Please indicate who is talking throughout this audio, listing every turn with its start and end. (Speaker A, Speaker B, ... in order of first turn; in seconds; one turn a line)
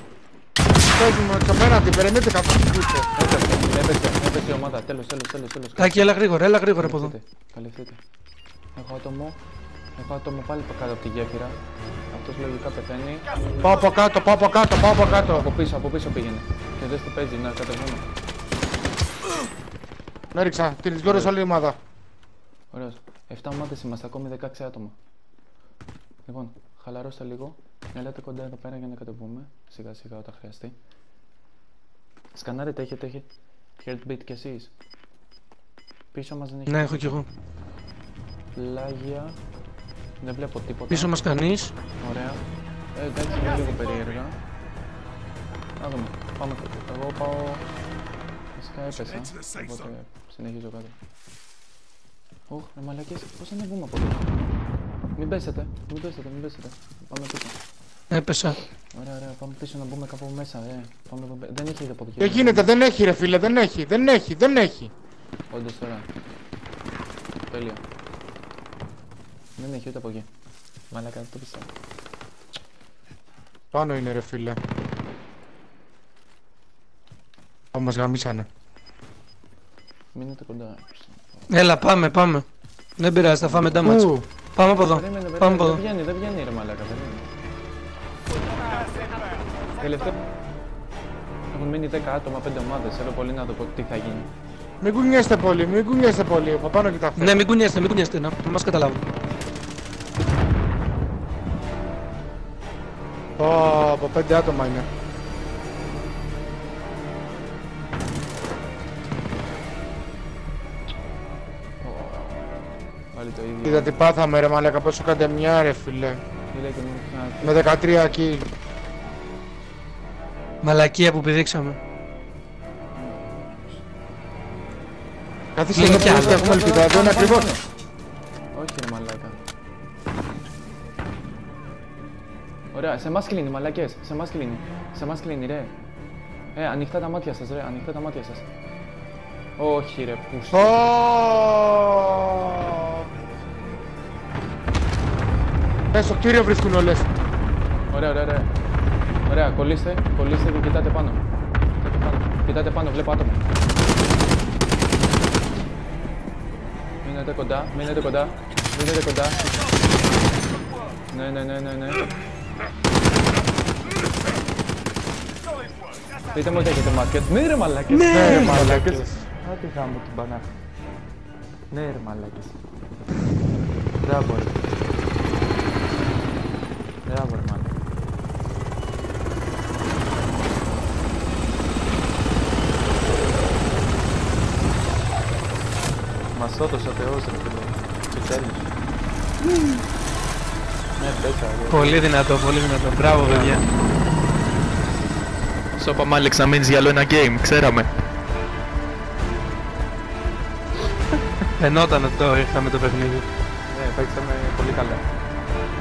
Speaker A: 0.9-3.1
Speaker B: 3.1-6.2
Speaker C: 5.8-7.1
Speaker B: 6.8-8.0
Speaker B: 8.7-9.4
Speaker B: 9.9-11.6
Speaker B: 12.1-13.3
Speaker A: 13.6-15.5
Speaker B: 15.0-18.0
Speaker A: 20.3-21.8
Speaker B: 21.0-21.4
Speaker B: 22.7-24.9
Speaker B: 26.2-30.7
Speaker B: 32.3-33.3
Speaker B: 33.8-34.7
Speaker B: 36.1-37.2
Speaker C: 36.7-37.2
Speaker B: 38.5-39.4
Speaker B: 40.2-41.1
Speaker C: 40.9-41.7
Speaker B: 42.0-42.4
Speaker B: 42.9-44.4
Speaker B: 45.8-47.6
Speaker B: 48.5-51.0
Speaker B: 52.5-54.3
Speaker B: 55.1-57.6
Speaker C: 58.1-58.6
Speaker B: 58.9-62.7
Speaker A: 62.2-64.9
Speaker B: 65.5-66.1
Speaker B: 67.5-67.8
Speaker B: 69.6-70.3
Speaker B: 70.9-71.7
Speaker A: 73.7-74.6
Speaker A: 77.7-78.5
Speaker B: 80.1-81.5
Speaker C: 81.5-82.4
Speaker C: 83.0-85.8
Speaker B: 83.3-84.0
Speaker A: 83.8-84.2
Speaker B: 84.7-87.3
Speaker B: 89.8-90.1
Speaker B: 91.5-94.3
Speaker A: 94.8-97.4
Speaker C: 97.2-99.0
Speaker A: 103.4-104.9
Speaker B: 111.8-112.6
Speaker B: 113.1-114.0
Speaker A: 113.6-116.2
Speaker B: 116.5-117.7
Speaker A: 117.4-118.5
Speaker C: 120.6-121.8
Speaker B: 122.9-123.8
Speaker A: 125.5-127.5
Speaker C: 125.7-126.5
Speaker B: 125.7-127.7
Speaker B: 128.5-129.4
Speaker B: 132.7-135.7
Speaker B: 136.5-138.4
Speaker B: 139.6-140.9
Speaker A: 140.5-143.0
Speaker A: 145.9-147.1
Speaker B: 147.9-148.5
Speaker B: 149.2-151.2
Speaker B: 151.8-153.5
Speaker B: 157.0-159.7
Speaker B: 161.1-162.1
Speaker B: 166.3-170.5
Speaker C: 167.9-168.6
Speaker A: 168.1-169.2
Speaker B: 171.7-172.6
Speaker B: 174.0-174.7
Speaker B: 177.0-177.7
Speaker B: 186.3-188.7
Speaker B: 191.0-192.0
Speaker C: 191.7-193.6
Speaker B: 193.3-193.6
Speaker D: 195.8-197.8
Speaker B: 195.8-196.3
Speaker C: 201.6-203.3
Speaker B: 203.7-205.0